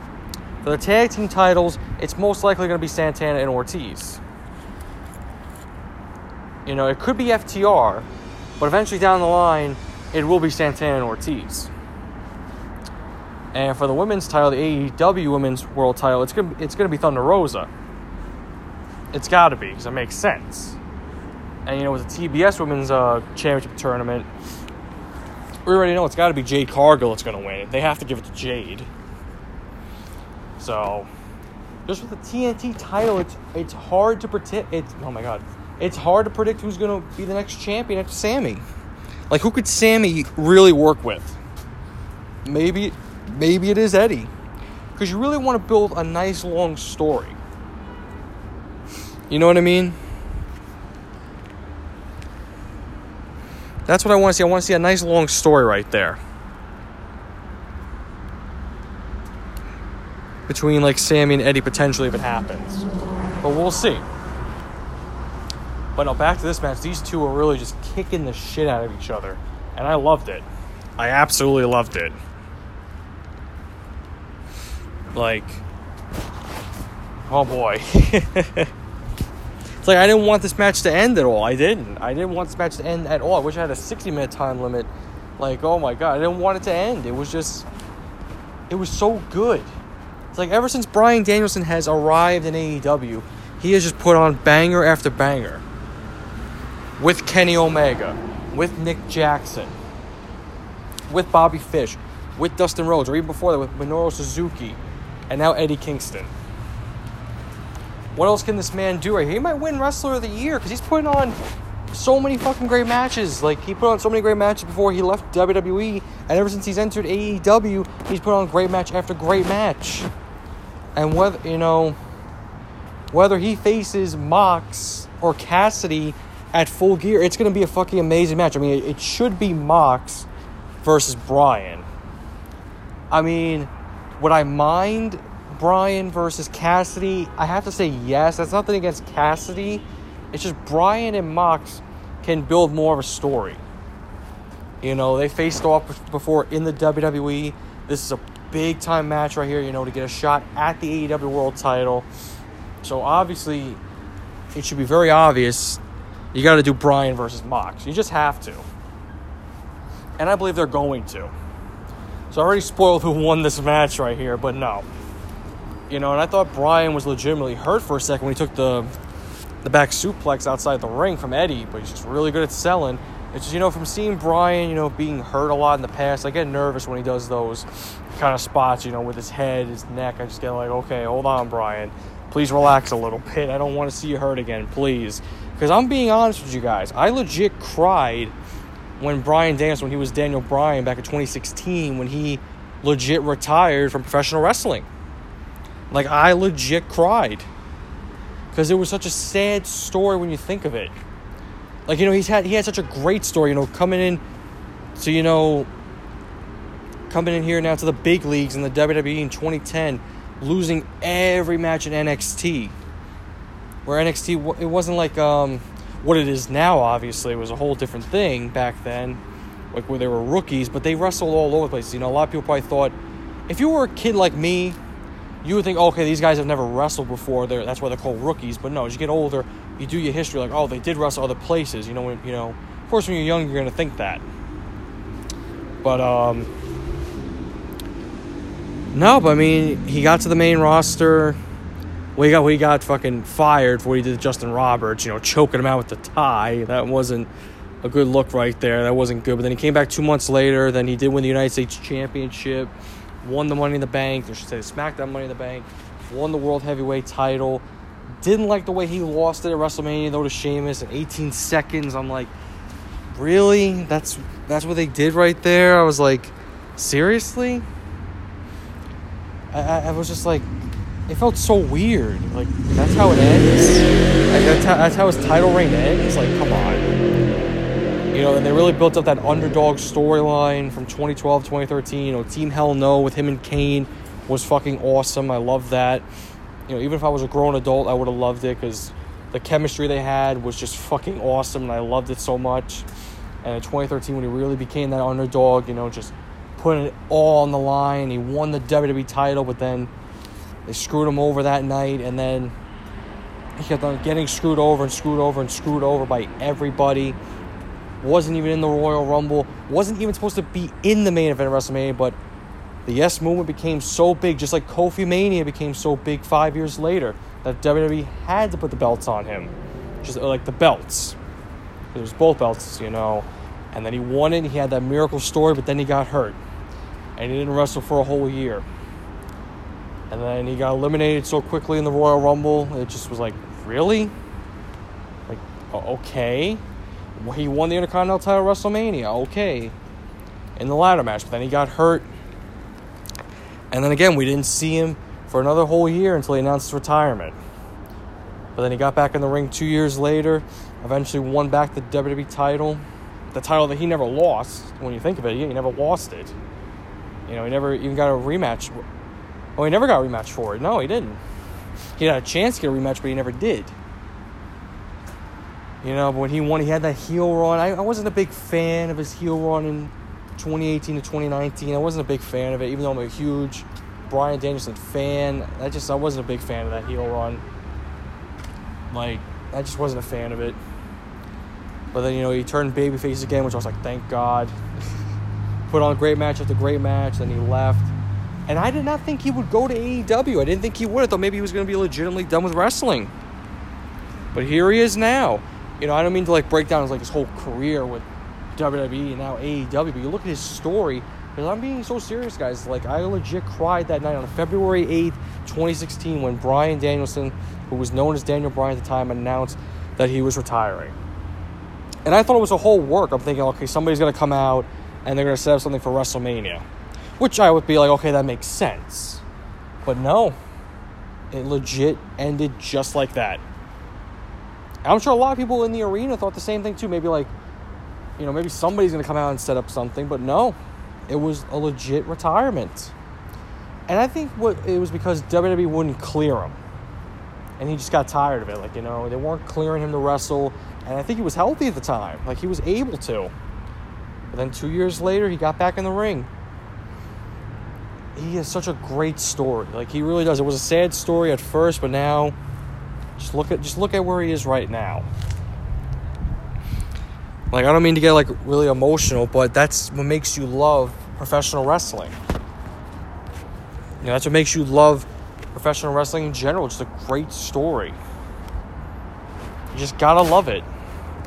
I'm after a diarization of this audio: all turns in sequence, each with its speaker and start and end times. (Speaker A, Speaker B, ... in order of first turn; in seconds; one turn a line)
Speaker A: 0.6-4.2
Speaker A: 6.7-8.1
Speaker A: 8.6-11.7
Speaker A: 13.5-17.7
Speaker A: 19.1-20.8
Speaker A: 21.7-24.3
Speaker A: 25.6-28.9
Speaker A: 30.6-31.1
Speaker A: 31.9-38.6
Speaker A: 39.3-41.4
Speaker A: 42.5-44.3
Speaker A: 45.0-47.4
Speaker A: 49.3-50.0
Speaker A: 53.9-56.2
Speaker A: 60.5-62.9
Speaker A: 63.4-64.1
Speaker A: 66.0-70.5
Speaker A: 71.0-72.2
Speaker A: 75.1-75.6
Speaker A: 77.3-78.7
Speaker A: 79.8-87.7
Speaker A: 88.7-89.7
Speaker A: 90.3-95.6
Speaker A: 97.0-99.8
Speaker A: 101.1-106.3
Speaker A: 108.2-111.4
Speaker A: 111.9-120.1
Speaker A: 121.0-122.0
Speaker A: 123.1-130.3
Speaker A: 130.8-131.9
Speaker A: 133.1-143.6
Speaker A: 144.8-152.1
Speaker A: 152.8-153.8
Speaker A: 154.5-155.8
Speaker A: 156.3-158.7
Speaker A: 160.2-161.3
Speaker A: 162.3-164.9
Speaker A: 165.9-168.9
Speaker A: 169.6-188.3
Speaker A: 189.0-194.9
Speaker A: 195.9-197.5
Speaker A: 198.5-200.9
Speaker A: 201.9-204.2
Speaker A: 205.0-205.7
Speaker A: 207.1-212.8
Speaker A: 213.9-219.2
Speaker A: 219.7-222.9
Speaker A: 223.5-224.8
Speaker A: 225.4-234.2
Speaker A: 235.8-236.5
Speaker A: 238.9-241.4
Speaker A: 242.2-247.3
Speaker A: 247.8-257.6
Speaker A: 258.2-262.3
Speaker A: 263.1-267.7
Speaker A: 269.5-270.5
Speaker A: 271.1-276.9
Speaker A: 278.1-286.1
Speaker A: 286.7-292.9
Speaker A: 293.4-299.9
Speaker A: 300.7-302.6
Speaker A: 303.6-307.2
Speaker A: 308.0-312.2
Speaker A: 312.9-321.2
Speaker A: 321.9-326.4
Speaker A: 327.2-328.6
Speaker A: 330.1-334.1
Speaker A: 335.3-336.6
Speaker A: 337.2-339.8
Speaker A: 340.6-342.1
Speaker A: 343.7-347.4
Speaker A: 348.6-356.3
Speaker A: 357.3-358.8
Speaker A: 359.6-361.2
Speaker A: 362.0-363.7
Speaker A: 365.8-377.4
Speaker A: 378.9-380.6
Speaker A: 381.9-384.6
Speaker A: 385.7-387.9
Speaker A: 388.5-393.1
Speaker A: 394.3-411.0
Speaker A: 412.1-416.6
Speaker A: 417.2-419.2
Speaker A: 419.8-420.4
Speaker A: 421.3-423.4
Speaker A: 424.8-427.3
Speaker A: 428.2-430.6
Speaker A: 431.1-432.9
Speaker A: 433.9-436.6
Speaker A: 437.6-443.3
Speaker A: 444.3-446.3
Speaker A: 448.2-452.4
Speaker A: 453.2-455.1
Speaker A: 457.5-462.1
Speaker A: 464.0-468.0
Speaker A: 469.7-470.7